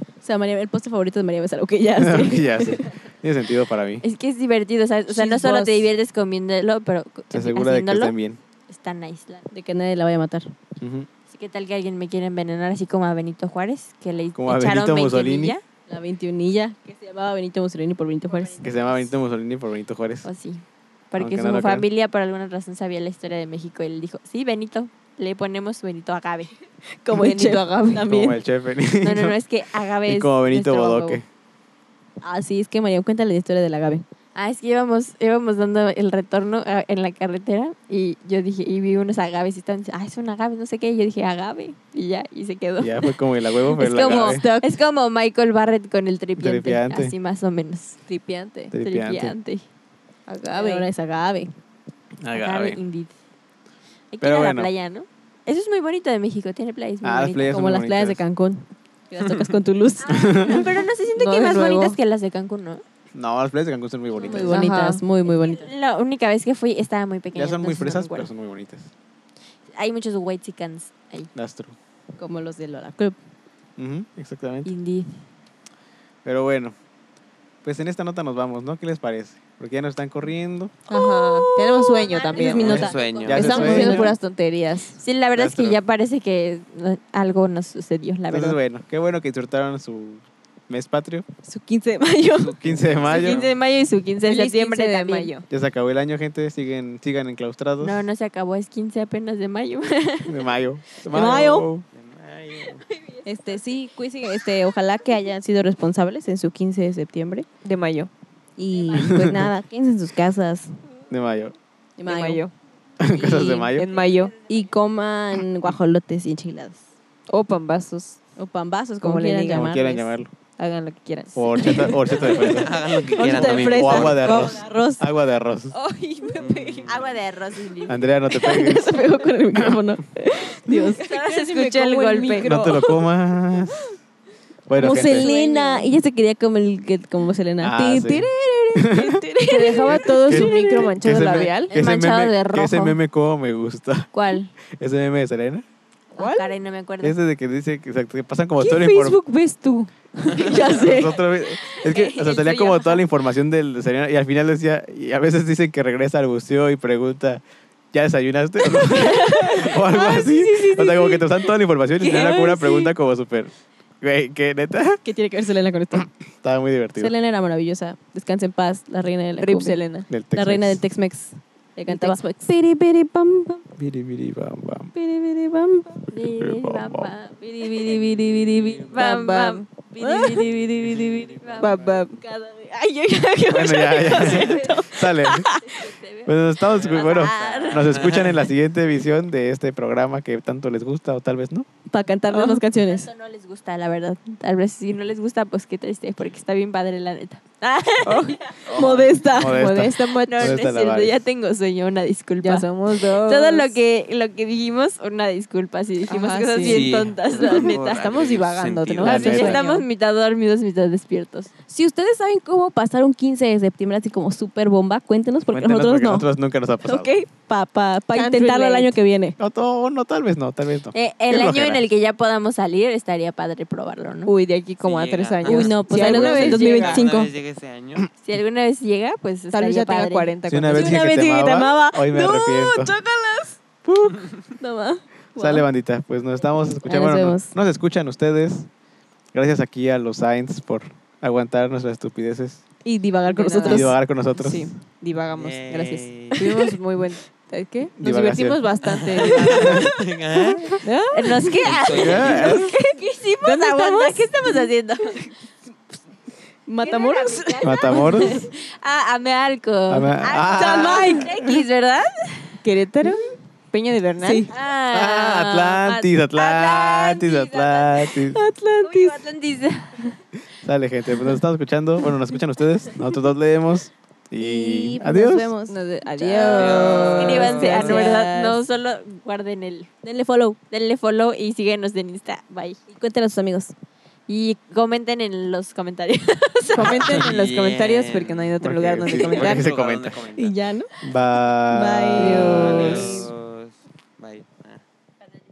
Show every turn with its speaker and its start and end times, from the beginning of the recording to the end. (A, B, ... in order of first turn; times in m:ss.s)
0:00.2-0:03.0 A
0:02.0-0:04.0 B
0:04.0-0:08.2 C
0:05.1-0:05.9 D
0:07.3-0:08.4 B
0:08.7-0:09.5 C
0:09.5-0:10.5 A
0:10.8-0:11.1 B
0:11.3-0:15.6 C
0:14.4-0:15.6 B
0:15.9-0:18.7 A
0:18.6-0:20.3 B
0:20.2-0:26.5 C
0:21.2-0:21.9 B
0:27.0-0:28.4 A
0:27.1-0:28.1 D
0:28.0-0:29.4 B
0:29.0-0:31.2 C
0:30.0-0:31.2 B
0:32.2-0:34.0 A
0:34.4-0:48.0 C
0:42.8-0:44.4 B
0:44.0-0:44.7 D
0:46.4-0:47.2 B
0:48.1-0:48.7 D
0:48.7-0:49.4 B
0:48.8-0:49.6 C
0:50.3-0:50.9 D
0:50.5-0:51.5 A
0:52.2-0:52.8 B
0:52.3-0:53.2 C
0:54.1-0:57.6 C
0:54.2-0:54.7 B
0:57.0-0:58.2 B
0:57.4-1:00.7 A
0:59.2-0:59.6 E
1:00.1-1:02.8 C
1:00.1-1:00.7 B
1:01.2-1:02.0 D
1:03.1-1:04.6 B
1:04.1-1:04.7 C
1:04.2-1:05.7 A
1:04.5-1:05.0 D
1:05.2-1:08.3 C
1:07.3-1:08.9 B
1:09.7-1:11.3 C
1:11.4-1:11.8 B
1:12.2-1:13.2 A
1:13.8-1:14.7 B
1:14.6-1:15.2 C
1:16.2-1:16.8 B
1:17.6-1:20.8 B
1:20.9-1:22.8 D
1:20.9-1:24.1 C
1:22.3-1:24.2 A
1:22.6-1:23.8 E
1:22.7-1:24.1 B
1:23.3-1:25.0 D
1:25.0-1:28.6 C
1:25.4-1:25.8 B
1:28.3-1:31.2 B
1:31.5-1:32.6 A
1:32.3-1:33.6 E
1:32.6-1:33.5 B
1:33.0-1:35.3 C
1:34.2-1:35.5 D
1:35.5-1:38.1 B
1:37.8-1:40.5 C
1:40.3-1:41.8 B
1:41.0-1:41.7 A
1:41.9-1:42.8 E
1:43.2-1:47.5 A
1:47.6-1:48.1 D
1:48.6-1:50.8 A
1:48.9-1:49.5 B
1:51.1-1:51.6 B
1:52.0-1:52.4 A
1:52.1-1:52.5 D
1:53.0-1:53.9 B
1:53.2-1:53.7 A
1:53.7-1:54.3 D
1:54.4-1:56.8 A
1:57.3-1:58.2 D
1:58.4-2:00.1 A
1:59.0-1:59.8 D
1:59.5-2:00.3 B
2:00.6-2:02.5 D
2:01.3-2:05.8 B
2:01.6-2:02.6 A
2:02.4-2:04.6 E
2:03.1-2:05.0 A
2:05.7-2:07.0 D
2:06.4-2:07.2 E
2:06.9-2:08.1 C
2:07.9-2:09.0 B
2:08.3-2:11.1 A
2:10.7-2:12.9 D
2:11.0-2:12.6 C
2:12.4-2:13.8 B
2:14.7-2:15.3 B
2:14.8-2:20.7 A
2:15.1-2:15.9 D
2:17.6-2:19.2 B
2:19.4-2:21.8 D
2:20.0-2:24.1 B
2:21.7-2:23.0 C
2:24.1-2:24.5 C
2:24.7-2:25.6 B
2:26.2-2:26.5 D
2:26.2-2:27.2 C
2:27.0-2:29.2 B
2:28.6-2:30.8 D
2:30.4-2:31.2 A
2:30.6-2:45.0 B
2:31.4-2:33.1 C
2:38.7-2:41.3 A
2:42.0-2:42.6 D
2:42.2-2:42.5 A
2:45.0-2:46.1 A
2:45.9-2:47.1 B
2:47.0-2:49.8 A
2:49.4-2:50.1 D
2:50.1-2:50.8 B
2:50.3-2:53.6 A
2:51.9-2:52.2 D
2:53.8-2:54.9 B
2:55.0-2:56.1 A
2:56.1-2:58.2 C
2:56.4-2:57.1 B
2:57.5-2:59.3 A
2:58.8-3:08.1 C
2:58.9-3:00.4 D
3:00.3-3:01.2 A
3:01.6-3:02.2 D
3:03.5-3:05.5 B
3:03.6-3:04.7 A
3:05.3-3:05.5 A
3:06.2-3:11.7 B
3:06.7-3:08.5 E
3:11.9-3:13.1 A
3:12.3-3:12.6 D
3:12.8-3:18.8 C
3:18.0-3:20.6 D
3:18.7-3:19.4 E
3:18.7-3:19.6 A
3:19.3-3:21.3 B
3:20.2-3:28.1 C
3:22.4-3:23.8 D
3:26.1-3:29.9 D
3:26.6-3:29.5 E
3:29.0-3:31.5 C
3:29.0-3:29.6 B
3:31.6-3:36.3 A
3:35.5-3:37.1 B
3:36.8-3:39.4 A
3:38.1-3:38.9 D
3:39.4-3:41.9 B
3:40.9-3:44.3 C
3:44.3-3:47.1 D
3:44.8-3:48.1 E
3:45.4-3:47.3 A
3:46.0-3:46.3 C
3:48.2-3:50.3 C
3:49.5-3:51.1 D
3:50.5-3:53.0 B
3:50.7-3:53.6 A
3:53.8-3:54.2 B
3:54.6-3:55.6 A
3:55.4-3:58.7 B
3:56.8-3:57.5 A
3:59.3-4:02.6 B
4:02.8-4:04.0 A
4:03.3-4:09.9 D
4:03.6-4:04.7 B
4:05.4-4:06.6 E
4:08.0-4:08.6 B
4:08.8-4:10.8 E
4:09.5-4:09.9 B
4:10.8-4:11.7 D
4:11.1-4:15.3 C
4:11.6-4:12.6 E
4:12.0-4:12.8 B
4:12.2-4:12.6 A
4:13.4-4:14.6 A
4:16.7-4:18.4 A
4:16.8-4:22.6 C
4:17.6-4:18.4 B
4:19.9-4:21.3 B
4:20.5-4:21.6 A
4:22.6-4:24.5 D
4:24.2-4:24.5 A
4:24.5-4:30.2 C
4:24.9-4:28.4 B
4:28.3-4:29.0 A
4:30.6-4:35.5 B
4:34.4-4:38.6 A
4:35.7-4:38.2 D
4:36.4-4:38.0 E
4:37.2-4:39.9 C
4:40.0-4:40.6 A
4:40.7-4:42.8 C
4:42.9-4:43.7 A
4:44.3-4:47.2 C
4:46.7-4:49.7 D
4:47.0-4:50.6 E
4:48.6-4:50.2 B
4:50.4-4:50.9 A
4:51.0-4:52.8 B
4:51.7-4:53.2 A
4:52.2-4:53.3 D
4:52.5-4:54.8 E